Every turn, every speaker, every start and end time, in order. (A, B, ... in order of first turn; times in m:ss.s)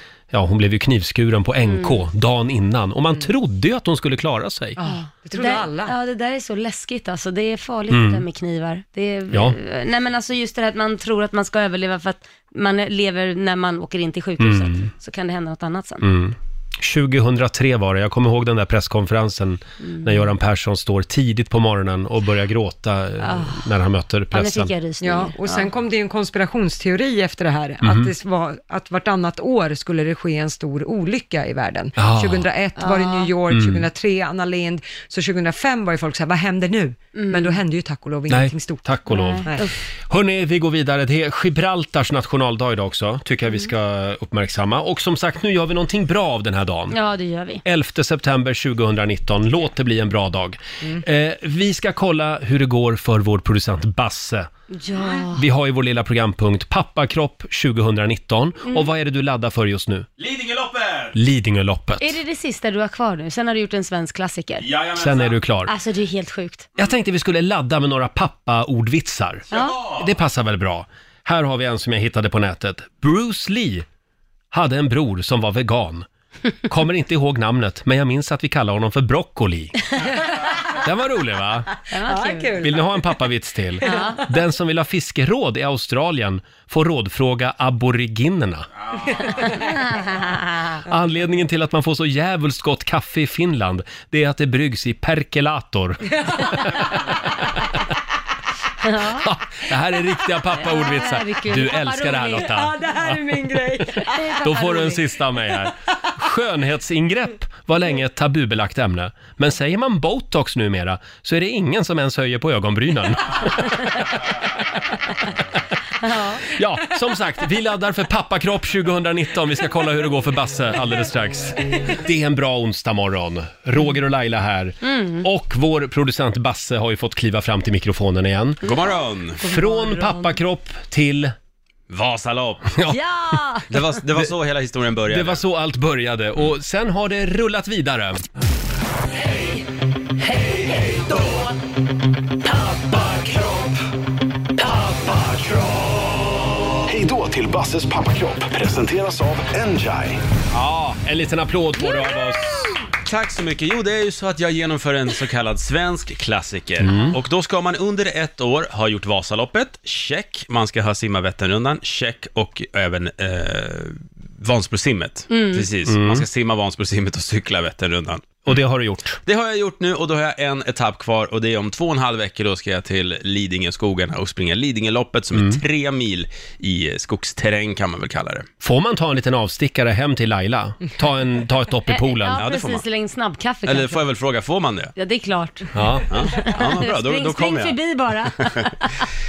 0:00.3-0:04.8 A
0:01.6-0:02.0 B
0:04.8-0:06.0 C
0:04.8-0:16.0 B
0:07.9-0:08.2 A
0:14.4-0:14.9 A
0:16.0-0:24.7 A
0:19.8-0:20.3 B
0:23.2-0:23.6 B
0:24.3-0:25.7 B
0:25.0-0:38.8 C
0:27.8-0:28.1 A
0:32.0-0:32.5 A
0:32.8-0:33.3 B
0:33.5-0:33.8 A
0:37.2-0:37.6 B
0:38.3-0:39.5 A
0:39.1-0:39.8 B
0:39.4-0:39.7 C
0:40.1-0:47.0 A
0:46.9-0:47.6 B
0:47.6-0:54.5 A
0:54.7-0:55.4 B
0:55.3-1:00.1 A
1:00.2-1:01.1 D
1:01.1-1:02.2 A
1:02.0-1:04.7 B
1:04.6-1:05.4 D
1:05.0-1:05.7 A
1:05.7-1:06.7 B
1:06.8-1:13.9 A
1:09.5-1:10.0 D
1:09.5-1:09.8 B
1:14.5-1:16.1 A
1:16.7-1:19.8 A
1:20.8-1:21.7 A
1:21.9-1:22.6 B
1:22.0-1:22.8 C
1:22.6-1:28.7 A
1:23.8-1:24.2 C
1:23.8-1:24.2 B
1:29.2-1:29.7 C
1:29.4-1:30.8 B
1:30.9-1:37.1 A
1:38.8-1:39.3 B
1:39.2-1:43.2 A
1:40.5-1:42.6 B
1:42.4-1:44.9 C
1:44.0-1:45.0 B
1:44.4-1:54.1 A
1:56.0-1:56.5 B
1:56.5-2:08.6 A
2:04.8-2:05.3 B
2:08.6-2:09.4 D
2:09.4-2:10.3 B
2:09.4-2:11.3 A
2:11.9-2:12.7 D
2:12.8-2:13.3 A
2:12.9-2:13.7 B
2:13.7-2:15.4 D
2:15.1-2:18.2 A
2:20.3-2:21.2 E
2:22.5-2:23.8 E
2:24.6-2:26.1 E
2:26.9-2:30.2 E
2:30.5-2:32.8 A
2:33.0-2:48.6 D
2:36.8-2:37.2 A
2:45.3-2:45.7 B
2:45.9-2:46.2 A
2:48.4-2:49.2 A
2:49.3-2:58.5 D
2:55.3-2:55.6 A
2:58.6-3:02.4 A
3:01.9-3:04.0 B
3:02.4-3:02.8 D
3:03.7-3:04.9 D
3:05.0-3:05.7 B
3:05.7-3:06.1 A
3:06.1-3:07.8 D
3:06.3-3:09.0 B
3:08.4-3:08.7 D